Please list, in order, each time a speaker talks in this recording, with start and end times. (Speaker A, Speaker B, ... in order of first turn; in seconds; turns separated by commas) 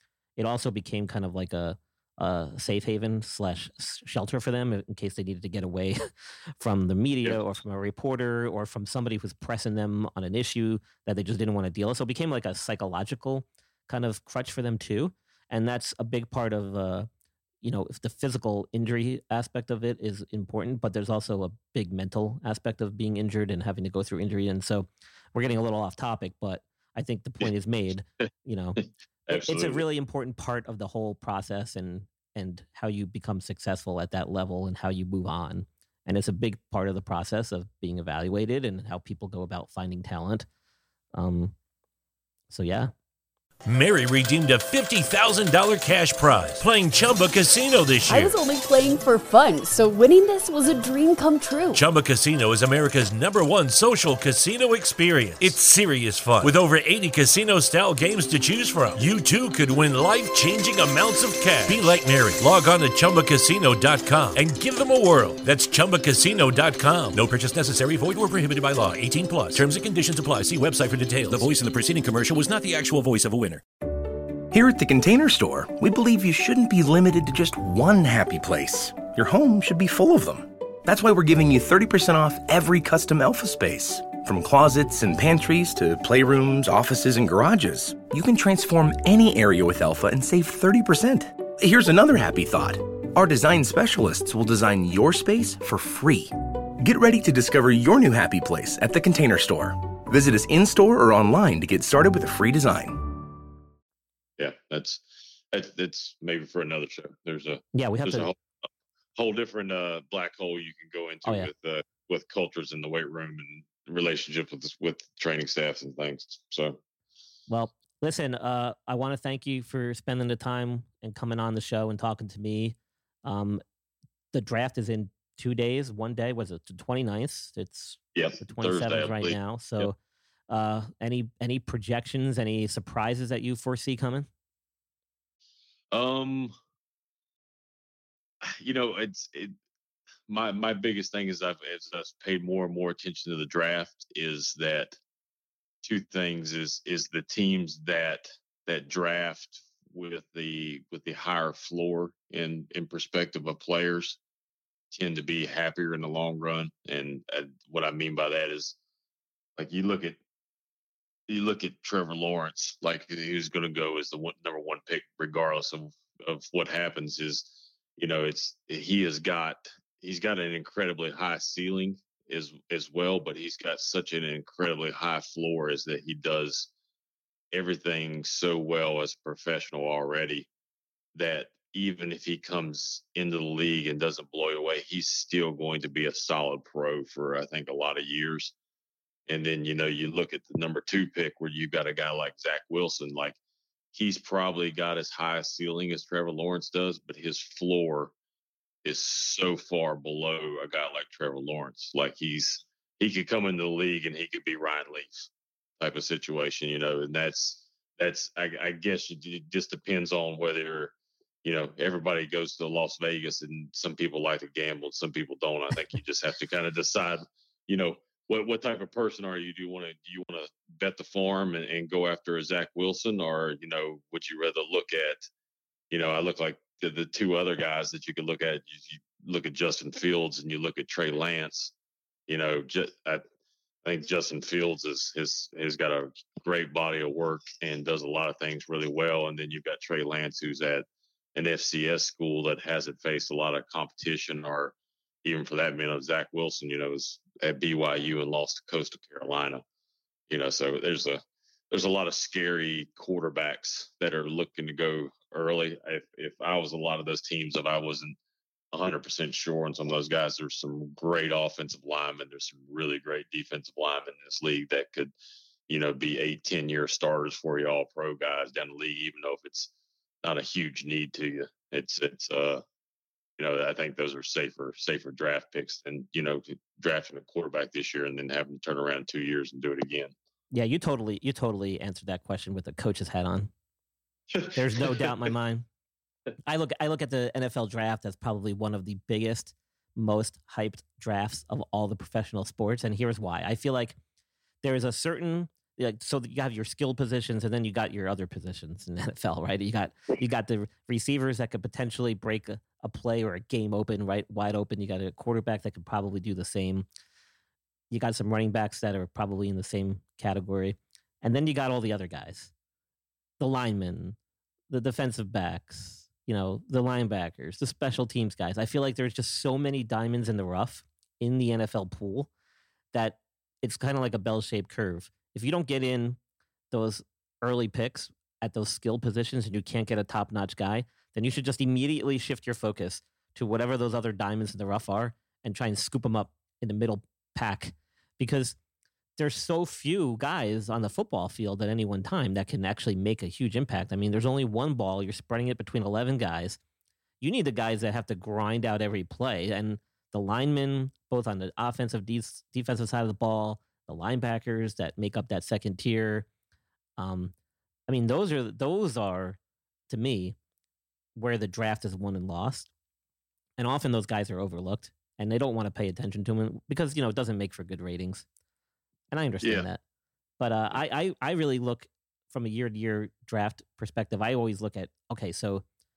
Speaker A: 0.4-17.1, Speaker B: 7.2-7.5, Speaker A: 17.6-40.5, Speaker B: 29.3-29.8, Speaker A: 41.1-41.5, Speaker A: 42.5-42.9, Speaker C: 43.6-48.3, Speaker D: 48.1-51.8, Speaker C: 51.7-73.6, Speaker E: 74.5-103.0, Speaker B: 104.4-108.4, Speaker A: 107.7-108.3, Speaker B: 109.2-116.8, Speaker A: 111.2-111.5, Speaker A: 117.5-123.6, Speaker A: 124.3-129.9, Speaker B: 128.1-129.9, Speaker A: 130.5-134.3, Speaker B: 135.9-136.5, Speaker B: 138.4-139.5, Speaker B: 140.3-145.0, Speaker B: 145.8-154.2, Speaker B: 154.9-158.8, Speaker B: 159.6-160.2, Speaker B: 161.3-176.7, Speaker B: 177.5-180.5, Speaker B: 181.1-188.5, Speaker B: 189.3-193.4, Speaker B: 193.9-198.1, Speaker B: 198.8-205.3, Speaker B: 205.8-225.3, Speaker B: 225.9-231.7, Speaker B: 232.3-233.2, Speaker B: 233.8-249.6, Speaker B: 250.3-258.2, Speaker B: 258.7-265.1, Speaker B: 265.7-269.7, Speaker B: 270.2-272.6, Speaker B: 273.4-280.1, Speaker A: 280.5-283.5, Speaker B: 284.3-285.1, Speaker A: 284.5-285.6, Speaker A: 286.4-293.9, Speaker A: 294.6-306.9, Speaker A: 307.9-312.5, Speaker A: 313.4-314.1, Speaker A: 314.7-322.3, Speaker A: 322.9-326.2, Speaker A: 326.7-338.6, Speaker A: 339.2-346.6, Speaker A: 347.2-356.3, Speaker A: 357.0-357.3, Speaker A: 357.9-359.4, Speaker A: 359.9-360.4, Speaker A: 361.1-362.7, Speaker A: 363.6-368.2, Speaker A: 369.1-369.8, Speaker B: 369.4-369.7, Speaker A: 370.4-375.6